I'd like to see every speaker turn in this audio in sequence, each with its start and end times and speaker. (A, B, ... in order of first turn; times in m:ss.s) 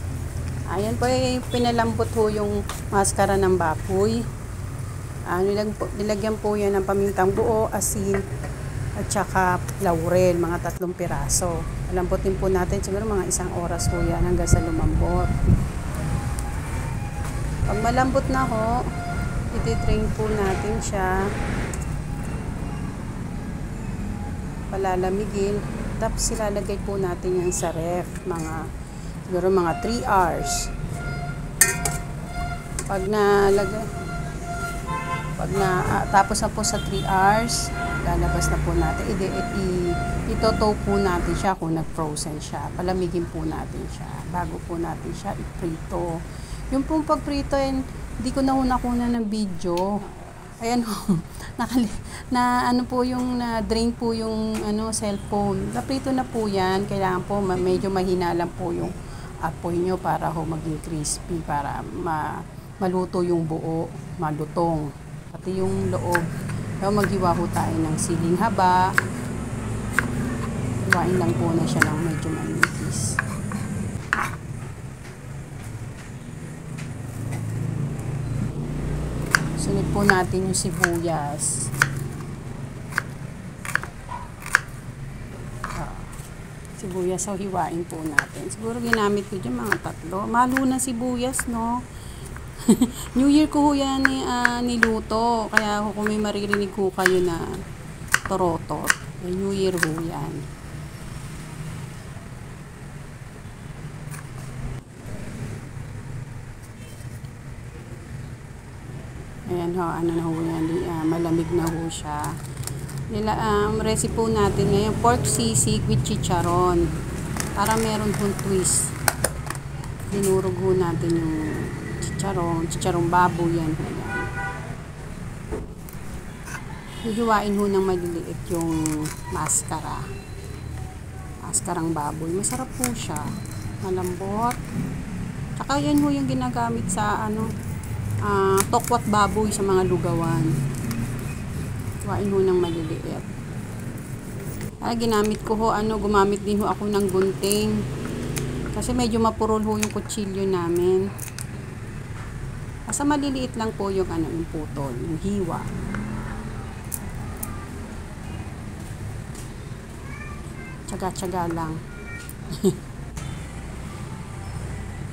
0:00.7-0:04.2 A
0:05.3-0:08.2 A
0:09.0-0:15.4 A
0:17.7-0:18.9 A
0:19.5-0:21.3 A
0:24.7-0:28.7 A
0:29.3-0:30.7 A
0:32.9-0:33.9 A
0:35.4-1:06.3 A
1:06.8-1:09.0 A
1:10.8-1:13.2 A
1:19.6-1:21.7 A
1:25.8-1:26.1 A
1:26.8-1:31.8 A
1:32.6-1:37.6 A
1:38.3-1:40.4 A
1:49.5-1:52.4 A
1:53.1-1:56.9 A
1:57.6-1:58.9 A
2:00.1-2:04.3 A
2:07.0-2:10.0 A
2:11.4-2:14.6 A
2:15.6-2:17.5 A
2:18.2-2:20.6 A
2:22.0-2:23.3 A
2:24.8-2:27.8 A
2:28.7-2:31.1 A
2:32.9-2:35.7 A
2:40.9-2:41.8 A
2:42.5-2:42.8 A